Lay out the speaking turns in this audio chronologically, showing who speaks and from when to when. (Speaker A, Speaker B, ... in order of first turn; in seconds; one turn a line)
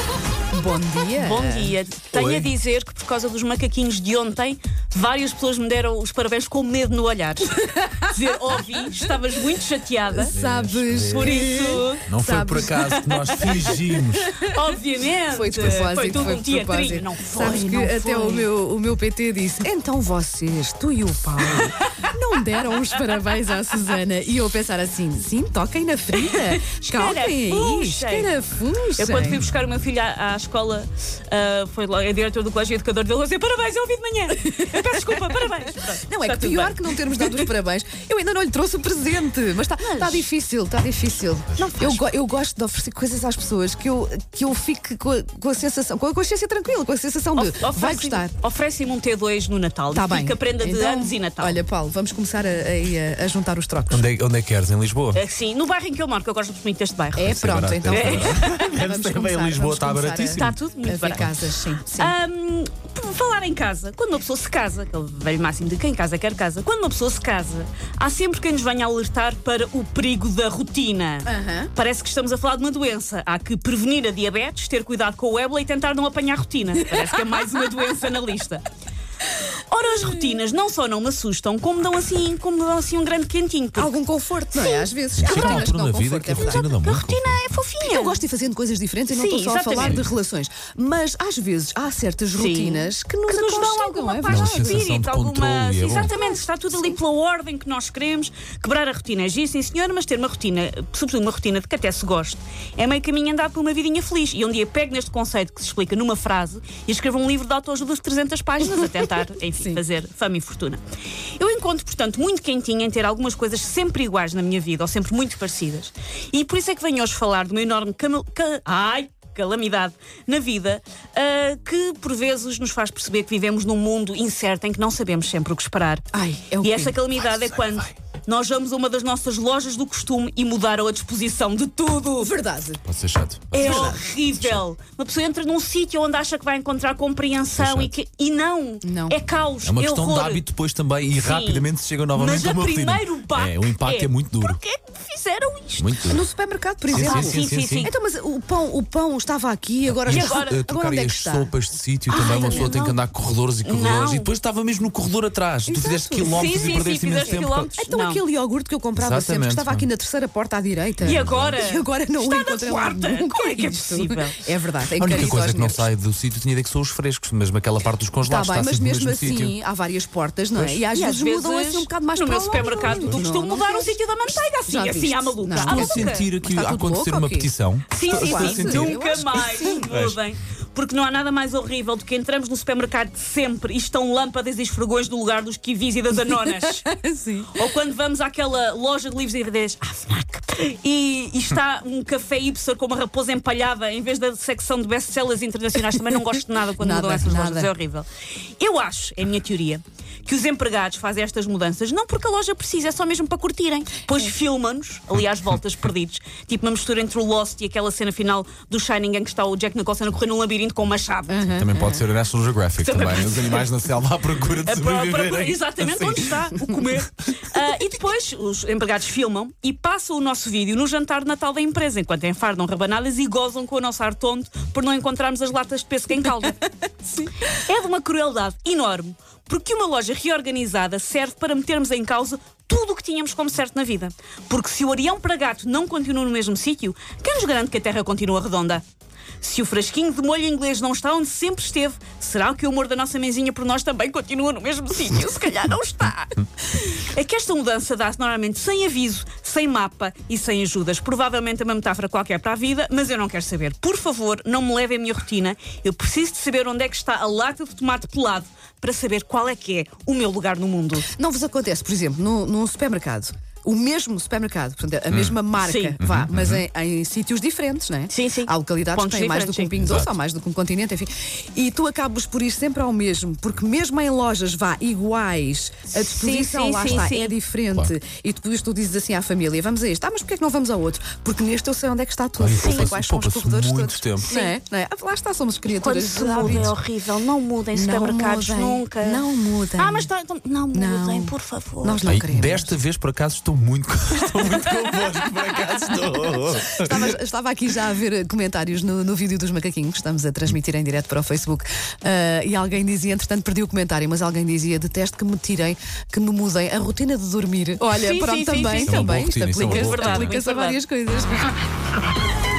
Speaker A: 0.5-1.7
Speaker B: 1.1-10.3
Speaker C: 2.1-2.5
Speaker A: 10.1-12.9
Speaker C: 10.3-11.3
Speaker B: 11.1-12.0
Speaker C: 12.0-14.3
Speaker B: 12.9-13.8
Speaker A: 13.5-14.5
Speaker B: 14.4-18.5
Speaker A: 15.3-29.4
Speaker C: 15.6-16.3
Speaker B: 21.5-21.8
Speaker B: 26.2-28.3
Speaker B: 29.0-37.5
Speaker A: 34.5-35.2
Speaker A: 36.0-48.3
Speaker B: 39.8-40.2
Speaker B: 41.6-42.0
Speaker B: 47.4-51.6
Speaker A: 49.9-54.0
Speaker C: 53.9-55.2
Speaker B: 55.1-57.3
Speaker A: 57.1-62.1
Speaker C: 57.2-60.6
Speaker B: 57.9-58.6
Speaker B: 60.3-61.3
Speaker B: 61.9-78.7
Speaker A: 71.2-71.7
Speaker B: 79.7-84.0
Speaker A: 83.7-86.6
Speaker B: 84.5-85.7
Speaker C: 85.1-87.4
Speaker B: 86.4-88.2
Speaker A: 87.8-94.8
Speaker B: 89.1-90.0
Speaker C: 89.8-90.1
Speaker B: 92.3-110.8
Speaker C: 94.2-96.1
Speaker B: 111.4-126.0
Speaker A: 126.1-127.0
Speaker B: 126.6-132.3
Speaker C: 127.2-127.9
Speaker A: 132.2-132.8
Speaker C: 132.8-134.6
Speaker B: 133.5-140.4
Speaker A: 133.5-134.0
Speaker C: 137.6-137.9
Speaker A: 138.8-139.2
Speaker C: 139.6-144.6
Speaker B: 141.1-145.9
Speaker C: 145.8-146.2
Speaker A: 146.1-151.5
Speaker C: 146.9-147.9
Speaker B: 146.9-147.9
Speaker C: 149.8-157.7
Speaker B: 150.1-150.6
Speaker B: 152.1-152.9
Speaker A: 152.2-152.9
Speaker B: 153.6-154.3
Speaker A: 155.7-165.8
Speaker B: 156.2-158.2
Speaker C: 158.9-159.9
Speaker C: 161.0-161.6
Speaker B: 161.0-164.4
Speaker C: 164.9-169.6
Speaker A: 168.2-177.5
Speaker C: 170.5-170.8
Speaker B: 170.9-176.3
Speaker C: 172.6-173.2
Speaker C: 175.6-179.3
Speaker B: 177.9-186.9
Speaker A: 178.1-179.8
Speaker C: 179.9-180.2
Speaker A: 186.4-187.6
Speaker B: 187.5-198.1
Speaker A: 196.8-197.7
Speaker B: 198.6-211.6
Speaker A: 211.3-212.0
Speaker C: 211.5-217.0
Speaker B: 212.8-213.7
Speaker B: 214.5-238.8
Speaker B: 239.4-261.1
Speaker A: 261.1-286.7
Speaker C: 265.1-265.4
Speaker B: 265.6-266.0
Speaker C: 266.0-266.6
Speaker B: 268.1-269.7
Speaker C: 269.8-270.1
Speaker B: 275.9-277.3
Speaker C: 276.8-277.1
Speaker C: 282.4-284.3
Speaker B: 282.6-283.0
Speaker B: 284.3-284.5
Speaker B: 285.7-289.2
Speaker C: 286.4-286.8
Speaker A: 287.7-290.1
Speaker B: 289.8-292.0
Speaker A: 290.7-292.7
Speaker C: 292.0-297.1
Speaker A: 296.8-311.5
Speaker B: 307.9-310.8
Speaker C: 308.8-310.4